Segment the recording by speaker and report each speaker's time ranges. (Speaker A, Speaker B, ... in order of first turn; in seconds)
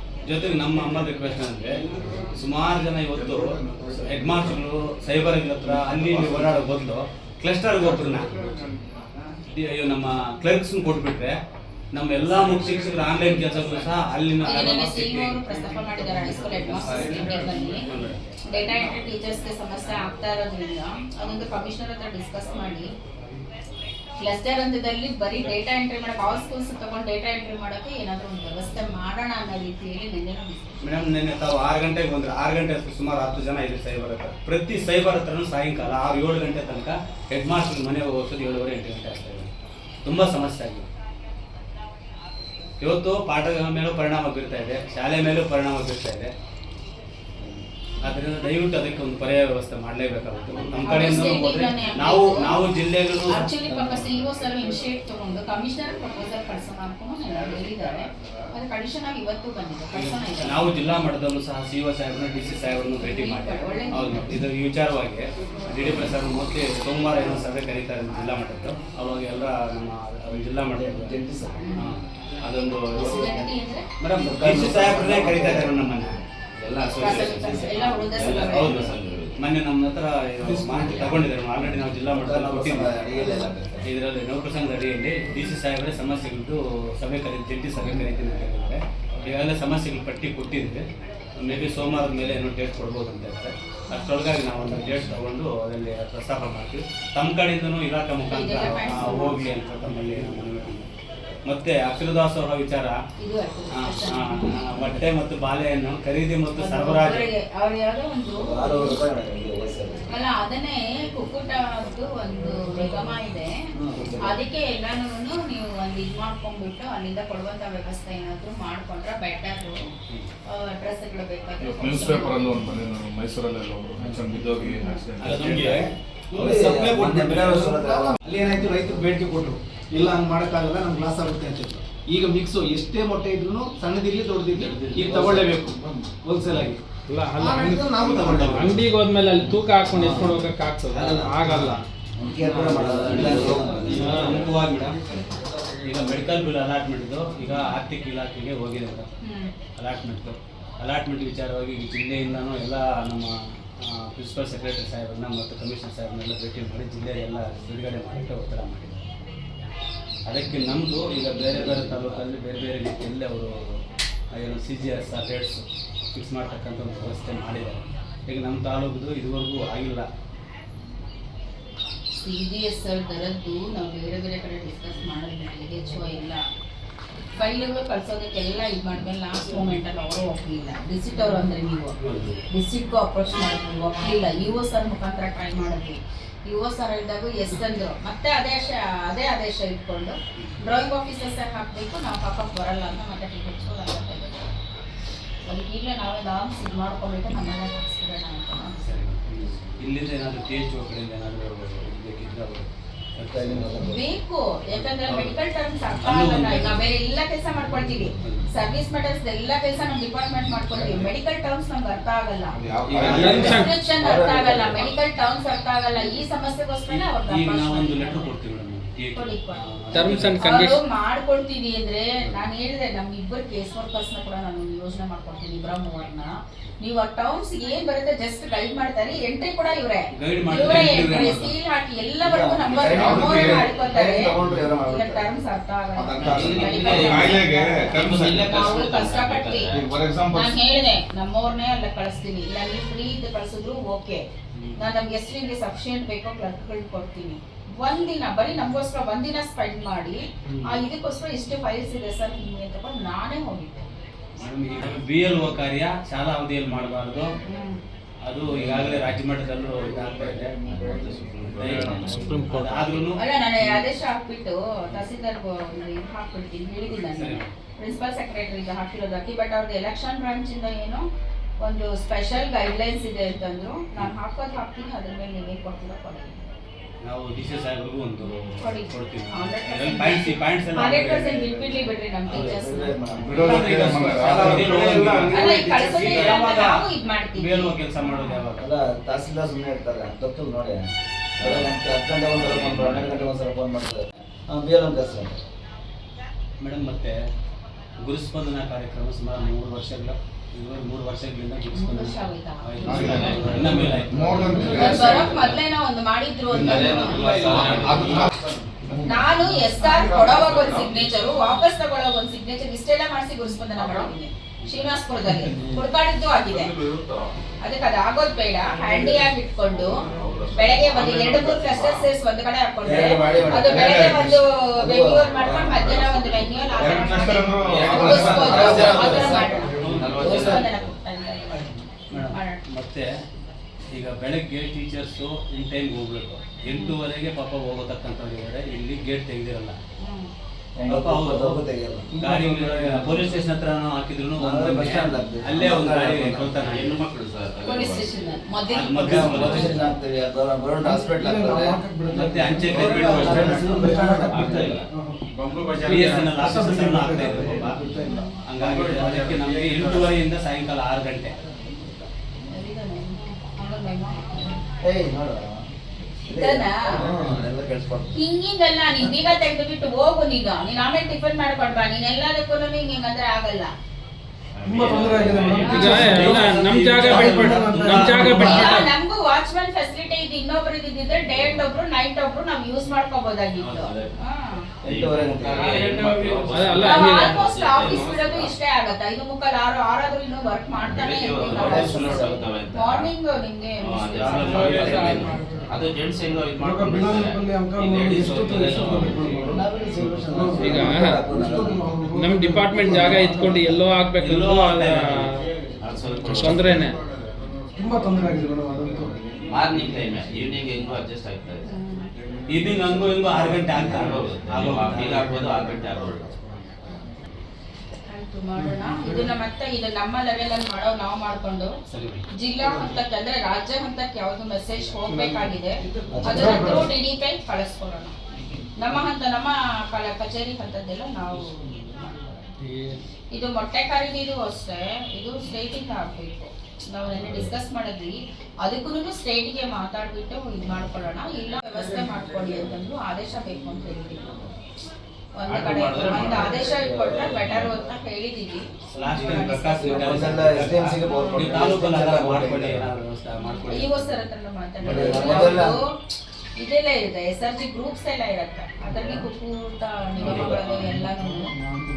Speaker A: 0.3-8.5, 9.5-11.4, 11.9-15.4, 16.6-18.2, 30.8-39.5, 40.0-40.9, 42.8-46.3, 48.0-53.5, 59.9-71.2, 71.8-73.3, 74.0-76.2, 77.5-82.9, 83.8-90.8, 91.4-100.9, 101.5-103.0, 103.8-107.3, 124.0-124.2, 125.2-127.8, 137.9-139.0, 142.8-145.0, 145.8-149.1, 149.8-159.0, 160.3-163.5, 164.3-165.6, 166.1-170.1, 182.0-182.4, 198.8-203.9, 205.1-205.3, 206.0-206.8, 208.2-208.5, 212.9-213.6, 216.9-220.4, 230.1-231.6, 244.6-244.8, 254.4-257.3, 258.2-260.6, 261.5-263.8, 267.1-267.5, 277.0-281.8, 282.3-282.6, 283.2-286.8, 287.4-288.7, 291.4-291.6, 292.3-293.1, 296.6-297.2, 298.0-305.6, 306.6-307.9, 328.8-329.2, 329.7-330.6, 332.1-333.1, 333.9-339.8, 340.9-341.6, 342.2-347.0, 348.7-349.9, 352.1-354.0, 355.8-357.8, 358.5-361.4, 375.7-378.7, 394.2-395.3, 404.2-405.4, 412.5-415.4, 421.9-422.2, 448.9-454.2, 454.9-455.7, 460.2-460.7
Speaker B: 3.3-3.9, 121.6-125.9, 212.6-213.5, 232.8-234.8, 235.9-238.7, 239.7-240.5, 283.2-286.2, 302.9-305.1, 307.7-308.4, 310.0-311.0, 316.5-317.3, 318.9-319.2, 319.9-322.1, 323.5-324.4, 325.4-329.4, 355.4-356.2, 358.6-360.1
Speaker C: 14.4-17.9, 18.5-22.9, 24.2-30.8, 50.8-52.6, 53.3-60.6, 63.0-64.3, 71.6-71.9, 73.0-73.9, 77.0-78.8, 98.3-99.5, 103.2-104.5, 106.6-109.0, 110.1-113.6, 114.2-119.9, 120.5-122.8, 124.8-125.0, 149.2-149.5, 172.2-176.4, 177.4-181.9, 182.5-194.5, 195.5-198.8, 203.8-212.5, 213.3-218.3, 219.1-239.7, 240.3-244.2, 244.8-253.9, 257.5-257.8, 263.1-271.0, 271.6-276.4, 278.3-283.9, 285.2-288.4, 301.7-303.8, 304.4-307.8, 309.0-316.8, 317.6-331.7, 332.2-332.6, 336.6-337.0, 340.0-340.3, 347.6-349.9, 358.0-358.4, 362.5-364.6, 366.3-367.1, 368.1-373.7, 375.4-376.4, 378.2-384.6, 386.8-395.4, 411.6-412.1, 418.1-421.7, 422.4-428.2, 428.8-432.1, 433.3-444.3, 445.4-451.6, 453.5-455.9, 456.6-461.5
Speaker D: 70.7-71.6, 72.9-73.5, 74.2-75.8, 80.8-81.2, 82.1-83.8, 108.4-110.1, 113.8-114.4, 125.6-129.0, 135.0-135.4, 139.9-140.4, 140.9-144.5, 203.3-204.0, 212.9-214.9, 232.2-235.2, 282.3-283.7, 288.6-290.9, 291.4-295.4, 303.2-303.7, 322.8-326.2, 328.2-328.8, 340.8-342.1, 344.4-346.6, 349.0-351.8, 352.4-354.8, 357.1-357.7, 364.8-365.6, 366.3-368.1, 384.8-385.7, 391.4-392.4, 399.4-401.8, 426.1-426.9, 446.3-447.4, 449.8-452.9, 454.8-455.7, 458.9-459.2
Speaker E: 76.6-79.4, 134.6-135.5, 236.2-237.3, 238.0-239.8, 258.5-259.2, 260.6-263.0, 303.1-303.7, 306.6-308.2, 327.7-330.9, 346.6-348.4, 354.3-354.9, 374.6-375.9, 381.3-381.7, 383.6-384.2, 384.9-388.5, 390.8-393.1, 393.9-399.4, 405.8-406.9, 409.5-411.7, 413.3-416.4, 445.5-446.5, 447.4-447.7
Speaker F: 126.4-126.9, 127.7-136.8, 137.4-138.6, 143.4-144.6, 304.7-305.0, 342.1-343.3, 350.9-358.0, 374.7-376.4, 377.5-378.1, 394.6-395.6, 396.6-399.6, 400.3-400.7, 401.3-403.8, 407.8-409.3, 425.1-426.9
Speaker G: 137.1-141.8, 142.6-142.8, 213.0-213.7, 219.9-220.8, 375.7-378.9, 385.9-387.4, 400.6-401.3, 402.1-405.5, 406.2-407.0, 432.6-433.0